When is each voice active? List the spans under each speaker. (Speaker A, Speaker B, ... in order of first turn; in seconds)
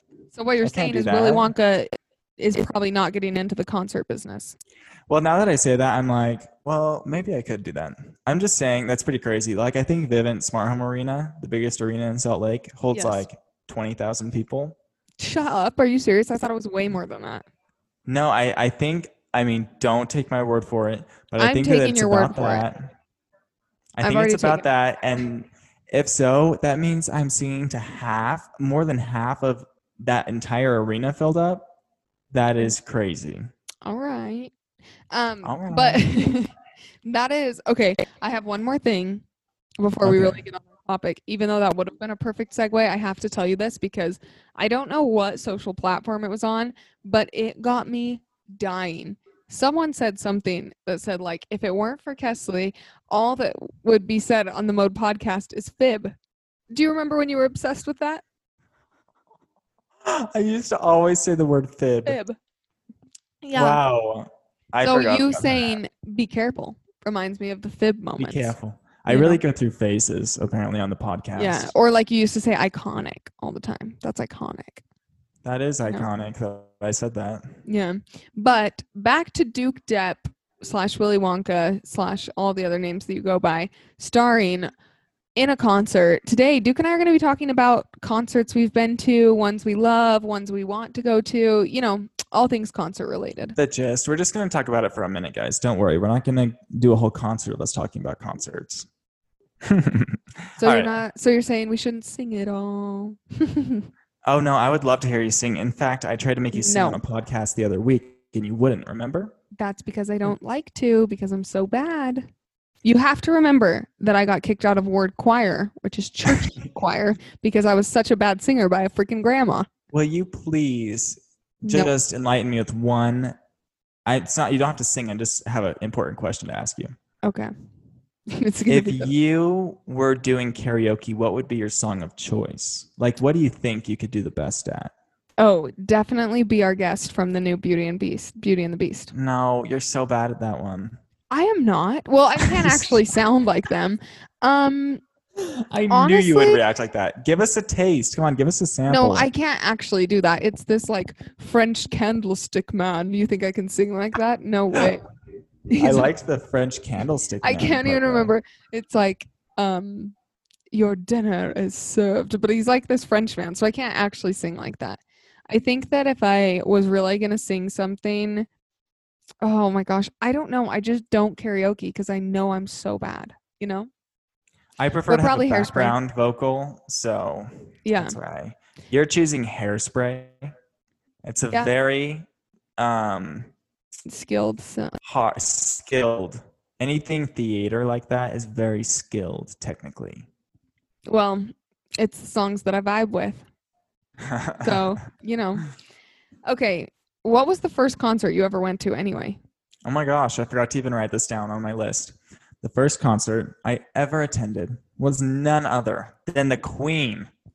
Speaker A: 0.3-4.5, 12.9-13.2, 15.2-17.4, 21.4-22.6, 24.0-24.7, 33.8-34.5, 35.1-39.2, 39.8-56.1, 56.7-58.2, 62.0-62.4, 63.4-63.8, 64.8-68.5, 69.1-69.4, 71.3-74.8, 77.6-84.7, 85.3-93.6, 100.6-103.9, 106.5-107.0, 109.6-112.3, 112.8-119.7, 121.6-121.9, 127.2-127.5, 128.3-129.1, 135.4-139.1, 141.3-145.0, 145.9-146.6, 148.9-155.0, 155.7-156.1, 157.4-160.1, 160.7-168.5, 169.4-173.9, 175.1-175.9, 177.8-178.2, 184.1-185.0, 191.1-193.4, 194.6-195.7, 196.4-199.4
Speaker B: 0.6-1.5, 5.1-14.8, 18.1-22.9, 23.9-31.6, 32.3-33.5, 35.4-36.0, 40.0-40.4, 60.0-62.2, 63.5-65.8, 68.2-71.7, 75.4-77.5, 93.5-98.9, 99.6-100.9, 104.2-109.3, 116.3-116.5, 119.9-123.3, 124.0-127.0, 128.7-134.9, 139.1-141.0, 142.4-143.0, 145.4-149.3, 155.8-158.3, 174.8-180.5, 181.2-183.5, 185.0-190.3, 194.2-194.9, 199.8-207.3